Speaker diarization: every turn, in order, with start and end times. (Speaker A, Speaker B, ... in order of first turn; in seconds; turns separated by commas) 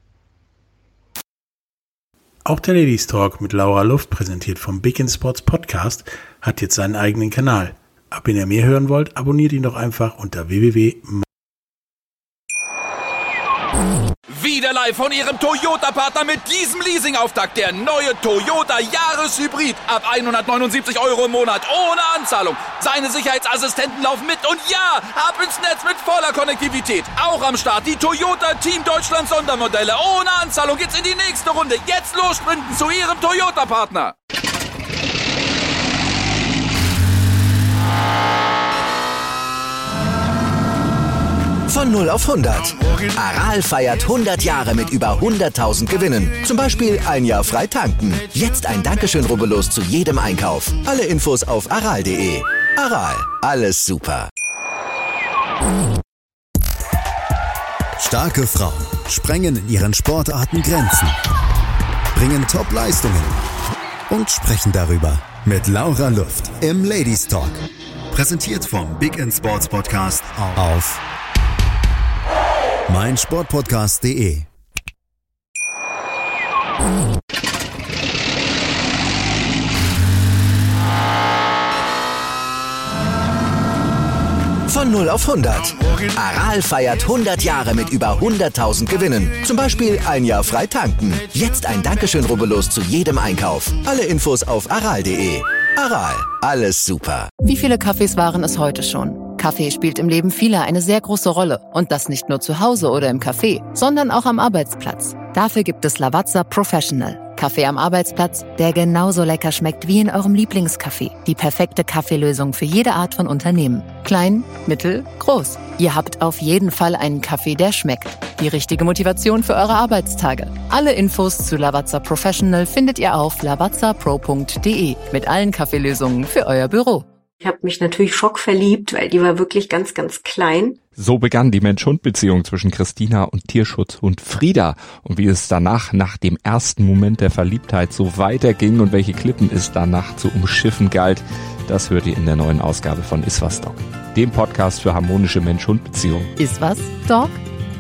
Speaker A: 2.5-11.2, Speaker B: 14.3-34.1, Speaker C: 41.7-54.3, Speaker D: 58.0-61.2, Speaker D: 62.1-63.4, Speaker D: 64.1-71.0, Speaker D: 72.9-74.5, Speaker C: 84.7-97.3, Speaker E: 97.4-127.1, Speaker F: 127.4-130.8, Speaker G: 130.9-146.3, Speaker E: 146.4-147.4